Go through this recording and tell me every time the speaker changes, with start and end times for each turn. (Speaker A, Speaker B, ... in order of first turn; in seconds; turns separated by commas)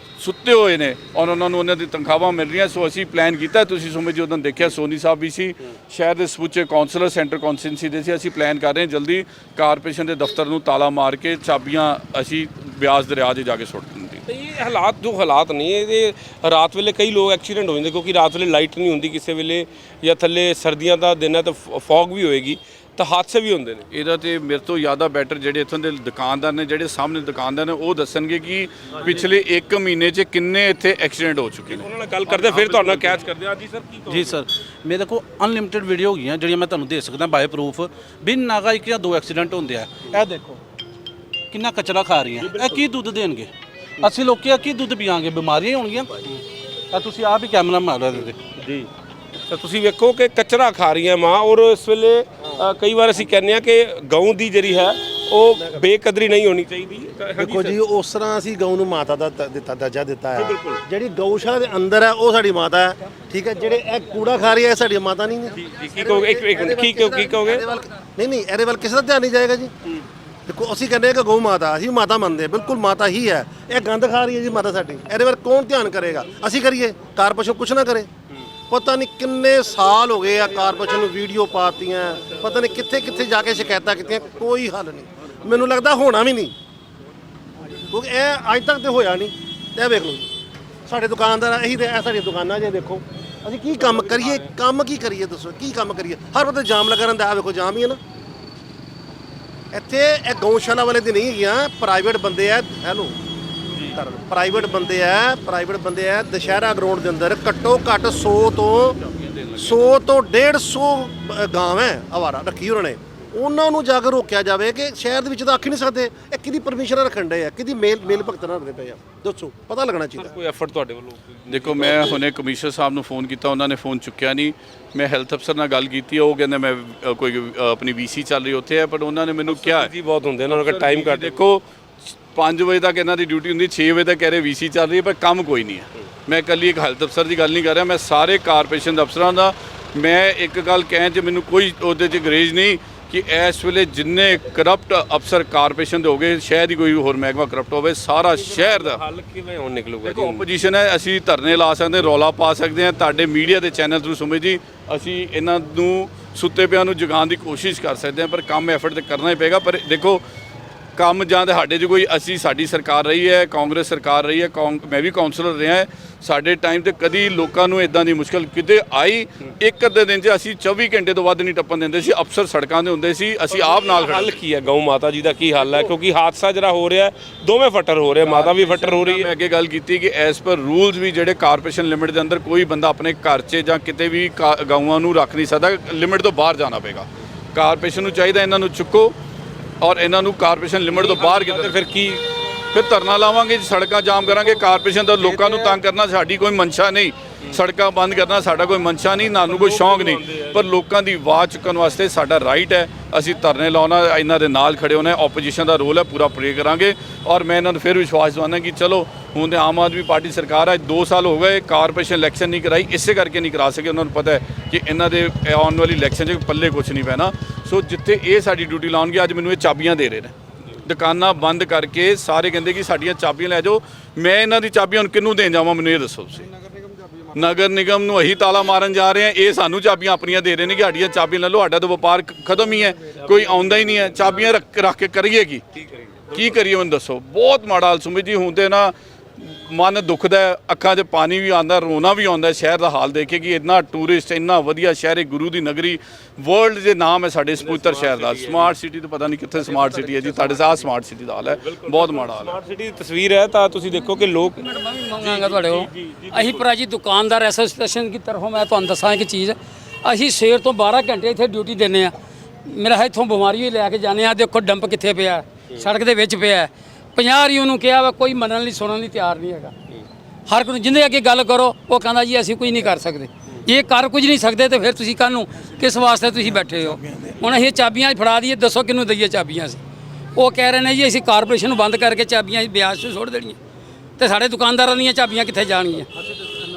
Speaker A: 0.2-14.2, Speaker B: 14.2-23.9, Speaker A: 23.9-33.0, Speaker B: 28.9-29.3, Speaker B: 31.7-34.4, Speaker C: 34.1-40.6, Speaker C: 41.5-43.5, Speaker C: 44.0-46.2, Speaker C: 46.9-48.4, Speaker B: 48.6-48.9, Speaker B: 49.5-57.8, Speaker D: 57.4-69.8, Speaker B: 60.3-60.8, Speaker B: 65.5-67.6, Speaker D: 70.5-78.1, Speaker D: 78.7-86.5, Speaker D: 87.9-90.2, Speaker D: 90.8-98.0, Speaker D: 99.7-103.2, Speaker D: 103.7-109.0, Speaker D: 109.5-120.3, Speaker B: 120.2-122.2, Speaker A: 121.5-129.9, Speaker B: 129.4-131.4, Speaker A: 130.5-131.6, Speaker A: 132.3-149.0, Speaker B: 148.3-150.5, Speaker A: 150.0-160.2, Speaker A: 160.9-174.4, Speaker B: 173.5-179.3, Speaker A: 178.2-189.2, Speaker A: 189.8-191.8, Speaker B: 190.9-192.2, Speaker A: 192.7-226.5, Speaker B: 195.3-195.7, Speaker B: 199.4-200.7, Speaker A: 227.3-235.6, Speaker A: 236.3-252.5, Speaker B: 247.6-248.7, Speaker B: 249.7-250.8, Speaker B: 251.6-254.7, Speaker E: 254.5-262.1, Speaker B: 255.2-256.6, Speaker E: 262.6-269.7, Speaker E: 270.5-279.8, Speaker E: 280.4-283.6, Speaker E: 284.2-286.1